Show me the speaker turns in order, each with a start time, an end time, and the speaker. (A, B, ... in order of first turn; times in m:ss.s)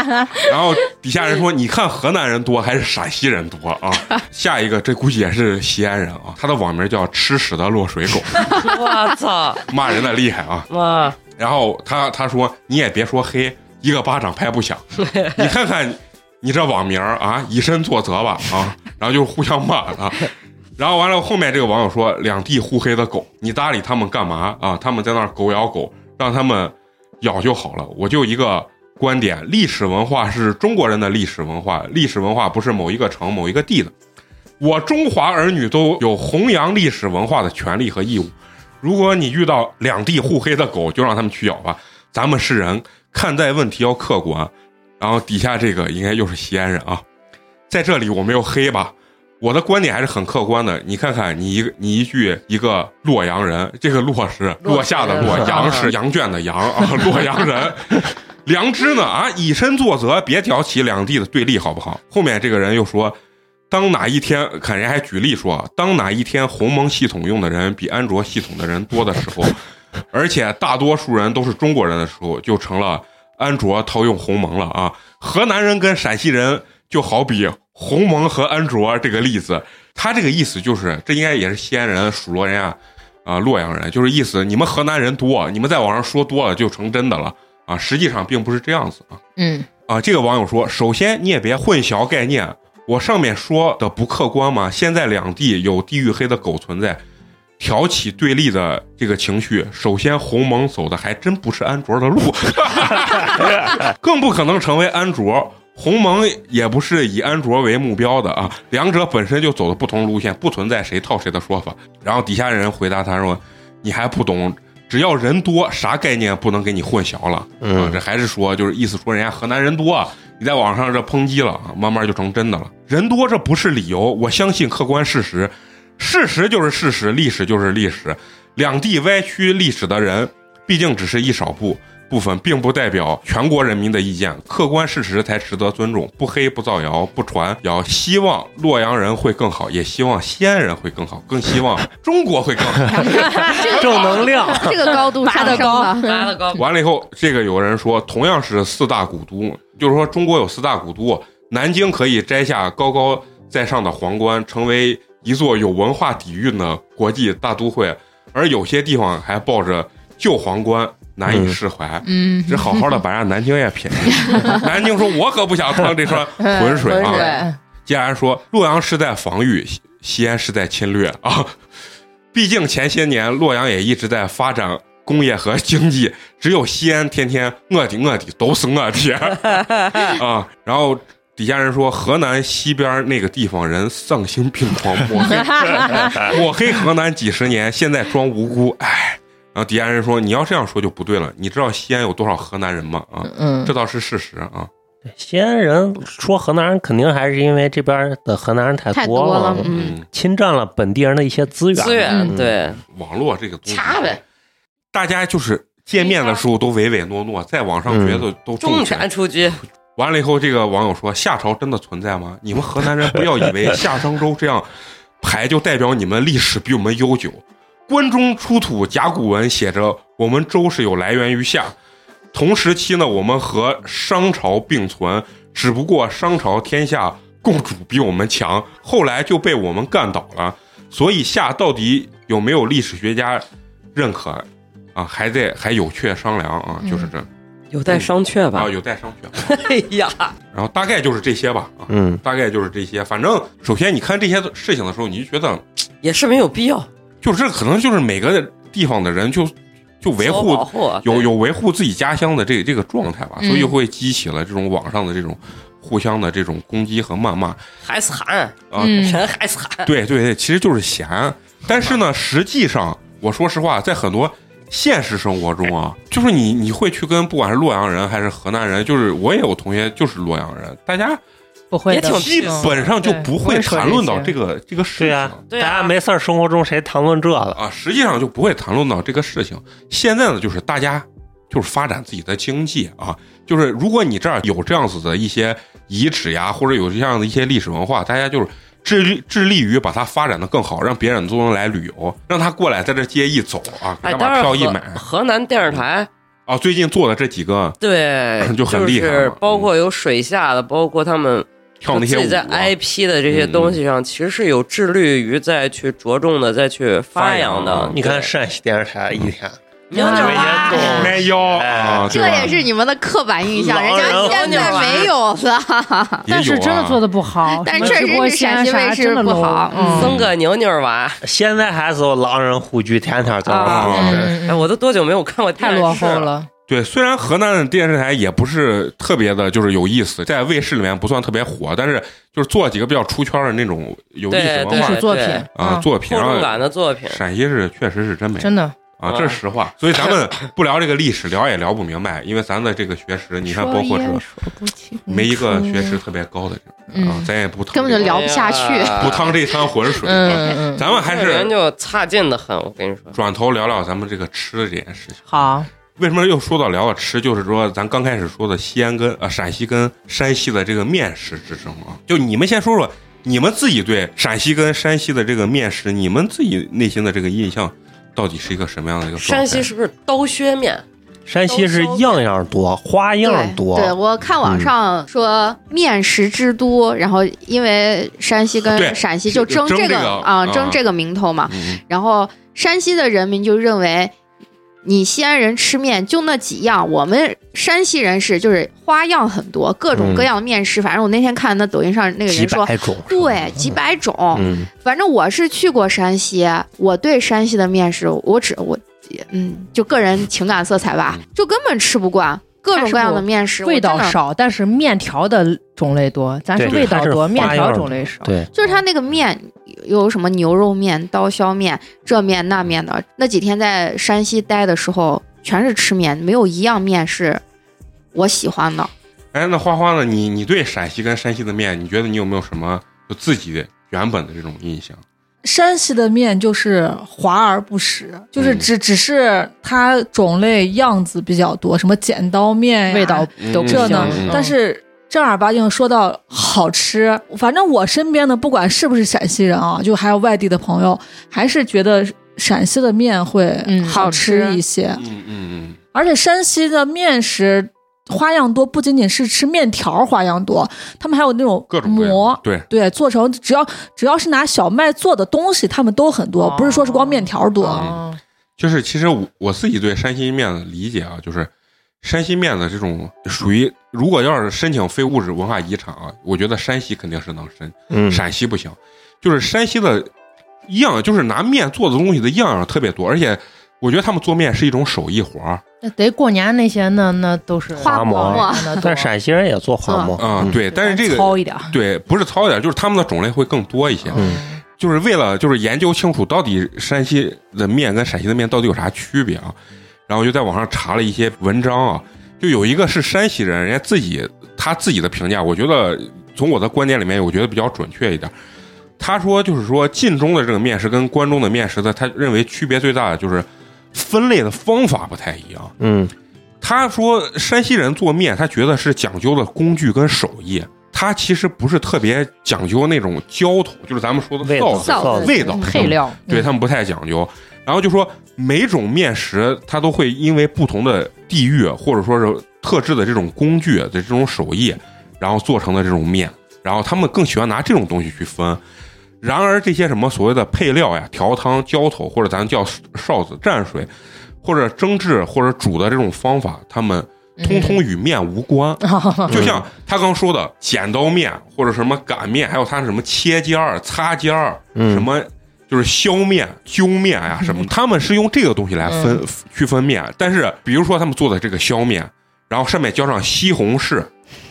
0:00.3-0:08.8 A
0:08.4-0:09.7 B
0:09.7-0:10.7 A
0:10.7-0:11.2 B
0:11.2-0:33.9 A
0:15.1-0:15.4 B
0:34.6-0:47.0 A
0:47.7-1:03.2 A
0:54.6-0:55.9 B
0:55.2-0:55.9 C
1:03.7-1:09.6 A
1:10.1-1:29.2 A
1:29.4-1:29.7 D
1:29.9-1:37.0 A
1:37.6-2:24.5 A
1:57.6-1:58.0 C
2:23.0-2:24.0 D
2:23.5-2:26.2 E
2:23.6-2:25.0 C
2:25.2-2:25.9 F
2:25.3-2:26.3 D
2:26.0-2:26.6 B
2:26.5-2:51.6 A
2:41.3-2:41.6 C
2:42.0-2:43.0 D
2:44.2-2:44.6 D
2:46.4-2:47.6 D
2:46.8-2:47.4 B
2:52.3-3:14.7 A
3:05.7-3:06.3 D
3:13.3-3:13.7 D
3:15.1-3:22.6 C
3:18.9-3:20.0 E
3:19.7-3:20.0 A
3:21.8-3:22.8 B
3:22.9-3:24.2 A
3:23.7-3:24.2 B
3:24.9-3:29.1 A
3:26.0-3:26.4 B
3:27.9-3:28.3 C
3:28.6-3:29.6 B
3:30.0-3:34.7 A
3:35.2-3:41.8 A
3:42.3-3:57.3 A
3:57.7-3:58.7 B
3:57.9-3:59.4 A
3:59.4-4:00.3 B
4:00.5-4:05.6 A
4:01.9-4:02.2 C
4:06.0-4:06.9 B
4:07.2-4:17.6 A
4:10.2-4:11.3 B
4:13.4-4:13.8 D
4:17.8-4:19.9 B
4:18.7-4:19.2 A
4:18.8-4:19.2 D
4:19.8-4:31.2 A
4:21.7-4:22.0 B
4:31.7-4:34.4 D
4:31.9-4:32.9 B
4:32.0-4:35.4 A
4:35.0-4:37.6 C
4:35.5-4:35.9 B
4:37.6-4:55.0 A
4:54.0-4:56.1 B
4:56.5-4:57.8 A
4:57.8-5:08.3 B
4:58.4-4:59.7 A
5:01.8-5:02.7 A
5:03.3-5:03.8 A
5:07.2-5:08.0 A
5:07.9-5:12.5 C
5:09.9-5:11.2 B
5:10.0-5:11.0 D
5:10.7-5:12.6 A
5:12.1-5:16.3 E
5:13.5-5:15.1 C
5:13.9-5:15.1 B
5:16.2-5:17.0 A
5:16.3-5:20.2 D
5:17.6-5:20.1 E
5:17.8-5:18.1 B
5:19.9-5:21.2 B
5:20.0-5:20.3 A
5:21.2-5:24.3 C
5:23.5-5:24.7 D
5:23.5-5:26.3 B
5:23.6-5:24.4 A
5:25.6-5:26.5 D
5:25.9-5:44.2 A
5:34.3-5:35.5 B
5:34.7-5:35.9 D
5:36.0-5:37.2 B
5:38.4-5:38.8 D
5:39.0-5:39.4 B
5:43.4-5:46.0 D
5:45.1-5:48.3 A
5:46.9-5:47.3 D
5:47.7-5:49.3 E
5:48.0-5:49.4 B
5:49.0-5:51.5 A
5:50.0-5:51.0 D
5:50.9-5:53.2 B
5:53.1-5:55.2 A
5:55.3-5:55.7 D
5:56.0-6:09.7 A
6:09.2-6:10.8 B
6:11.3-6:14.7 C
6:11.5-6:12.2 B
6:13.2-6:24.1 E
6:18.6-6:20.8 A
6:21.5-6:21.8 A
6:24.8-6:44.2 E
6:29.9-6:30.3 C
6:32.3-6:33.8 C
6:34.3-6:34.7 C
6:42.7-6:48.7 D
6:46.5-6:48.5 C
6:48.5-6:57.4 E
6:58.1-6:58.9 E
6:59.3-7:05.0 A
7:05.4-7:25.0 F
7:08.4-7:08.7 A
7:12.9-7:14.6 D
7:13.4-7:14.4 A
7:23.6-7:24.6 D
7:25.0-7:25.8 A
7:25.9-7:37.9 F
7:31.7-7:32.7 A
7:36.4-7:38.2 D
7:37.7-7:38.0 A
7:38.6-7:41.5 A
7:42.0-7:50.1 A
7:47.9-7:48.2 C
7:50.7-7:55.6 A
7:55.8-7:59.1 D
7:57.8-7:58.9 E
7:57.8-8:00.6 C
7:59.9-8:00.2 E
8:00.2-8:09.6 A
8:00.4-8:01.7 D
8:04.1-8:04.6 D
8:04.1-8:04.4 C
8:10.1-8:18.3 A
8:19.0-8:25.7 A
8:25.8-8:26.1 C
8:26.6-8:48.6 A
8:34.4-8:36.0 C
8:34.7-8:35.8 E
8:35.3-8:36.5 D
8:49.2-8:53.9 A
8:54.4-9:14.1 A
8:57.4-8:57.8 D
8:58.8-8:59.5 D
8:59.3-8:59.6 C
9:04.8-9:05.1 C
9:07.4-9:07.7 D
9:08.9-9:09.2 D